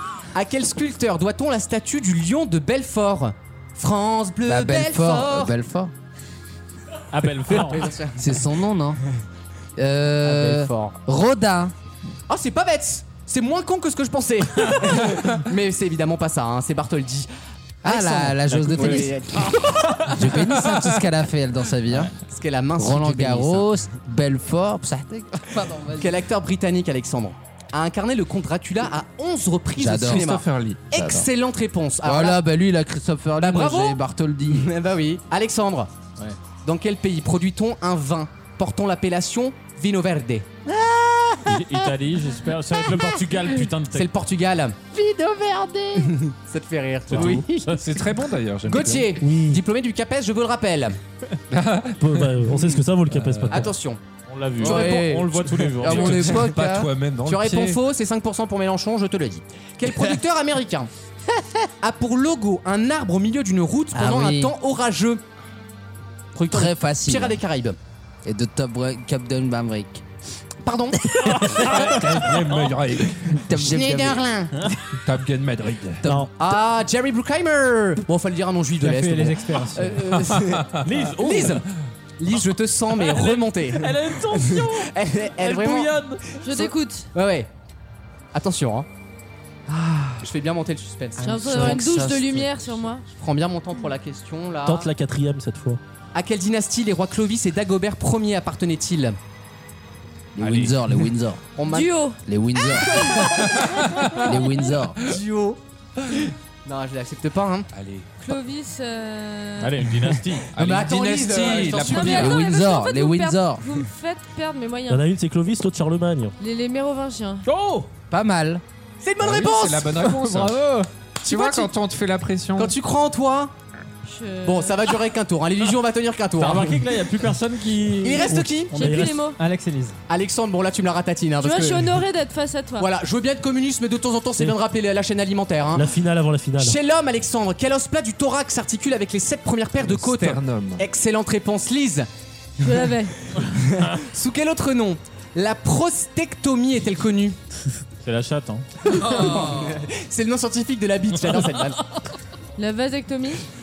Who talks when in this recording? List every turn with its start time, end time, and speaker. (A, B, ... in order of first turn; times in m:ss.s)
0:00.3-0:05.5 A
0:04.4-0:05.9 B
0:07.1-0:08.0 C
0:07.5-0:08.2 A
0:08.2-0:09.0 B
0:09.8-0:11.7 B
0:10.2-0:10.9 A
0:12.3-0:17.3 A
0:17.8-0:19.2 B
0:17.8-0:20.0 A
0:18.8-0:19.1 C
0:20.1-0:22.1 B
0:22.2-0:23.7 A
0:22.8-0:26.2 B
0:26.0-0:32.4 A
0:29.8-0:30.3 B
0:30.0-0:30.9 D
0:30.9-0:31.3 B
0:32.0-0:34.7 B
0:33.4-0:35.9 A
0:36.6-0:40.5 A
0:40.6-0:41.9 B
0:41.4-0:44.1 C
0:43.9-0:44.8 A
0:44.9-0:46.2 B
0:46.0-0:47.4 A
0:47.1-0:48.0 C
0:47.2-0:47.5 B
0:47.6-0:49.1 D
0:48.7-0:51.0 A
0:49.2-0:49.6 E
0:51.5-0:53.5 D
0:52.0-0:53.7 E
0:53.5-0:54.0 A
0:54.3-0:56.5 C
0:54.6-0:56.1 A
0:54.6-0:55.0 B
0:55.7-0:57.8 D
0:55.8-0:56.9 B
0:57.2-1:00.9 A
1:01.3-1:01.7 B
1:01.8-1:05.2 A
1:03.9-1:04.5 B
1:06.3-1:07.8 A
1:06.5-1:07.4 B
1:08.2-1:10.0 B
1:10.6-1:11.7 A
1:11.5-1:13.4 D
1:13.3-1:14.2 B
1:13.5-1:14.7 A
1:15.0-1:16.0 D
1:16.0-1:16.3 B
1:16.4-1:21.6 A
1:18.8-1:20.0 F
1:20.3-1:20.8 D
1:20.8-1:21.6 C
1:22.2-1:27.5 A
1:23.0-1:24.9 C
1:25.4-1:26.1 E
1:25.6-1:26.0 C
1:26.4-1:27.1 G
1:28.3-1:28.9 A
1:29.8-1:32.0 A
1:31.2-1:32.5 B
1:31.2-1:33.0 G
1:33.1-1:34.9 A
1:34.6-1:35.8 E
1:36.1-1:39.2 A
1:40.3-1:41.4 B
1:40.4-1:40.8 D
1:41.6-1:41.9 A
1:41.7-1:42.2 G
1:42.2-1:43.2 B
1:42.7-1:44.6 G
1:43.3-1:44.2 D
1:44.1-1:45.0 B
1:45.0-1:45.6 A
1:46.1-1:47.7 A
1:47.7-1:48.1 D
1:48.2-1:49.7 G
1:49.6-1:50.5 C
1:50.5-1:52.4 D
1:50.6-1:52.3 A
1:51.5-1:55.0 G
1:52.1-1:53.7 B
1:54.9-1:56.3 E
1:56.4-1:57.4 G
1:57.4-1:57.9 C
1:58.1-1:58.6 B
1:59.0-2:00.0 A
1:59.2-2:00.6 D
2:00.0-2:00.9 F
2:01.2-2:01.7 A
2:01.2-2:02.7 D
2:02.6-2:03.5 A
2:04.0-2:04.8 G
2:04.4-2:06.8 A
2:06.4-2:08.4 C
2:08.0-2:08.8 A
2:08.2-2:09.2 E
2:08.7-2:09.4 G
2:09.4-2:10.0 F
2:10.1-2:12.0 A
2:11.4-2:12.9 G
2:12.8-2:16.0 A
2:15.7-2:16.8 E
2:16.6-2:22.1 A
2:19.8-2:20.8 D
2:22.6-2:23.1 G
2:22.6-2:27.4 A
2:28.0-2:28.6 C
2:28.9-2:31.8 A
2:29.1-2:29.7 B
2:32.6-2:33.4 G